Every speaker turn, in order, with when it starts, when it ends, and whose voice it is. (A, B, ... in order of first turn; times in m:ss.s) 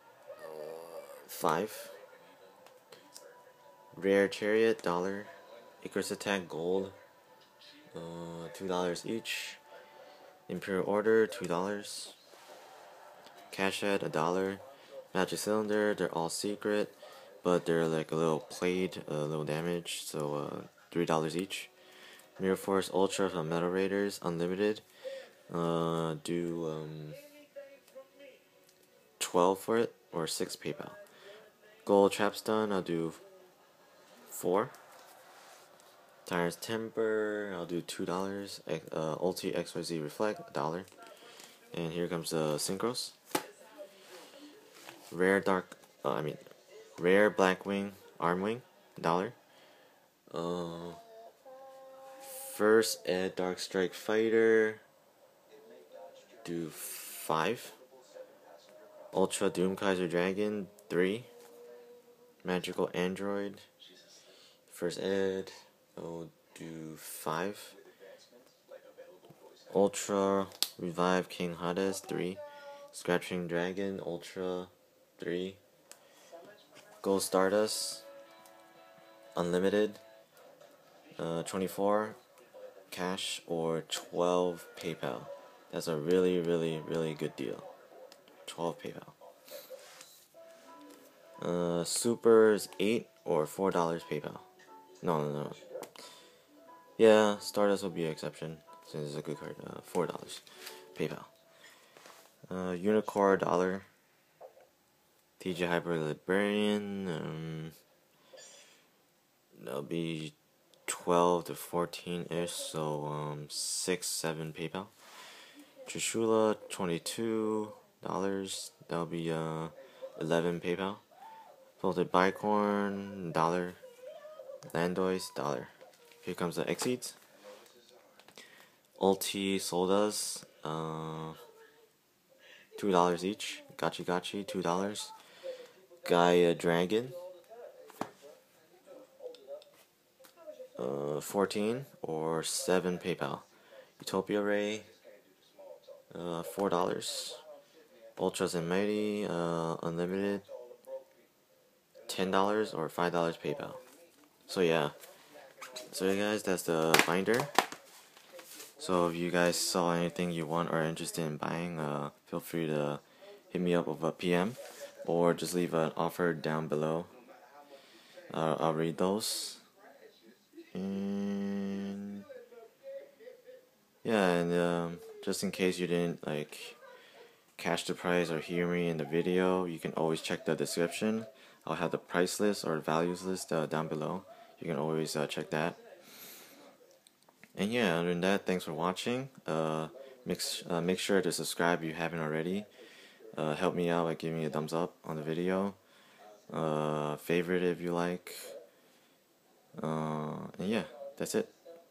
0:00.4-0:02.0 A
0:03.9-0:07.0 A
0:07.9-0:09.6 A
0:10.5-0:12.2 A
0:13.5-0:21.7 A
0:22.4-0:24.8 A
0:25.5-0:27.2 A
0:29.2-0:31.0 A
0:31.8-0:33.2 A
0:34.3-0:34.7 A
0:36.2-0:40.9 A
0:41.7-0:43.2 A
0:45.1-0:49.4 A
0:50.3-0:51.0 A
0:52.2-0:54.8 A
0:56.4-0:57.8 A
0:59.1-1:01.3 A
1:02.4-1:03.6 A
1:04.7-1:07.8 A
1:09.7-1:12.4 A
1:12.9-1:15.6 A
1:17.0-1:18.0 A
1:19.4-1:20.0 A
1:21.2-1:22.2 A
1:22.9-1:27.7 A
1:28.4-1:29.1 A
1:31.4-1:34.5 A
1:35.0-1:35.6 A
1:37.0-1:41.3 A
1:42.5-1:43.9 A
1:45.4-1:47.8 A
1:49.5-1:50.3 A
1:50.8-1:54.9 A
1:55.8-2:01.0 A
2:01.8-2:03.8 A
2:04.7-2:05.7 A
2:06.2-2:07.2 A
2:09.0-2:11.4 A
2:12.8-2:15.1 A
2:16.0-2:17.2 A
2:20.8-2:23.4 A
2:24.0-2:24.9 A
2:26.1-2:27.4 A
2:28.2-2:30.5 A
2:32.1-2:33.8 A
2:34.5-2:34.9 A
2:35.8-2:37.6 A
2:38.8-2:47.1 A
2:48.3-2:49.6 A
2:50.7-2:52.2 A
2:54.0-2:56.8 A
2:57.6-3:05.8 A
3:07.5-3:12.7 A
3:13.3-3:15.8 A
3:16.5-3:18.6 A
3:19.8-3:21.5 A